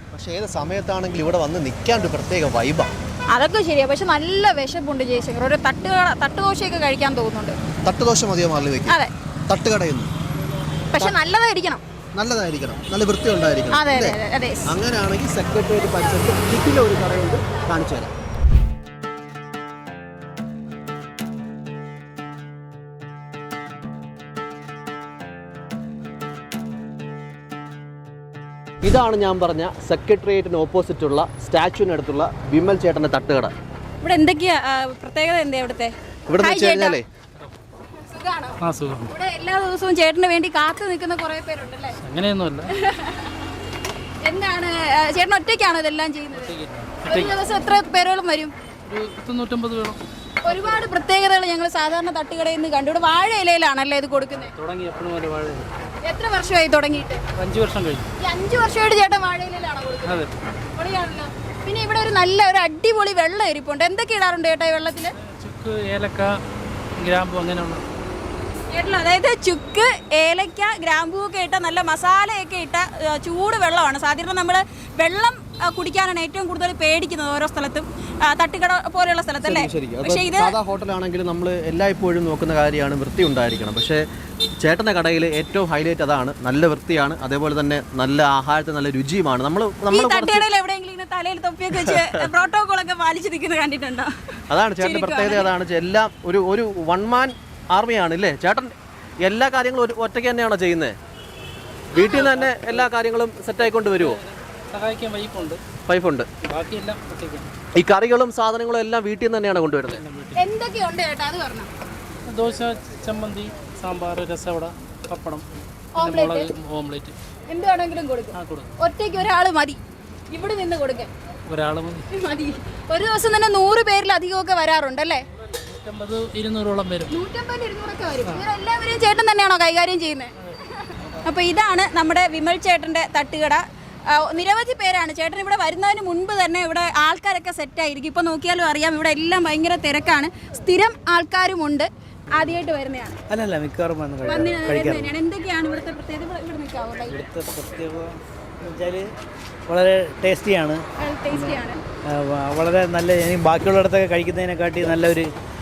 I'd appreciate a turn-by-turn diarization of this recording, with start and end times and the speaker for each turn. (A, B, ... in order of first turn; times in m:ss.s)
0:00.1-0:02.9 A
0:03.3-0:07.6 B
0:07.8-0:09.0 A
0:09.5-0:10.1 A
0:10.9-0:11.8 B
0:12.1-0:18.1 A
0:13.7-0:14.7 B
0:28.8-0:33.5 A
0:34.0-0:37.0 B
0:36.3-0:37.0 A
0:38.0-0:38.6 B
0:38.6-0:39.1 C
0:39.1-0:42.0 B
0:42.0-0:42.7 C
0:42.7-0:43.4 B
0:44.2-0:46.5 B
0:46.3-0:47.3 C
0:47.0-0:48.5 B
0:48.8-0:50.0 C
0:50.4-0:54.5 B
0:54.3-0:55.7 C
0:56.0-0:57.2 B
0:57.4-0:58.1 C
0:58.2-1:00.2 B
1:00.1-1:00.4 C
1:00.8-1:05.1 B
1:05.3-1:06.3 C
1:07.0-1:07.8 C
1:08.7-1:20.5 B
1:19.4-1:24.0 A
1:24.6-1:30.4 A
1:29.9-1:35.5 B
1:34.5-1:40.9 A
1:41.9-1:42.3 B
1:41.9-1:44.2 A
1:42.2-1:42.8 C
1:44.7-1:45.6 C
1:45.9-1:46.3 A
1:46.5-1:47.5 C
1:47.7-1:50.0 A
1:49.9-1:50.4 C
1:50.3-1:51.7 B
1:52.3-1:55.4 C
1:55.9-1:56.5 B
1:56.0-1:57.1 C
1:57.5-2:01.1 B
1:58.3-1:58.7 C
2:01.5-2:02.1 C
2:02.1-2:05.2 B
2:05.6-2:07.1 C
2:07.1-2:23.2 B
2:23.3-2:25.1 D
2:24.2-2:27.2 B
2:27.1-2:29.1 D
2:29.7-2:35.3 D
2:31.0-2:31.8 B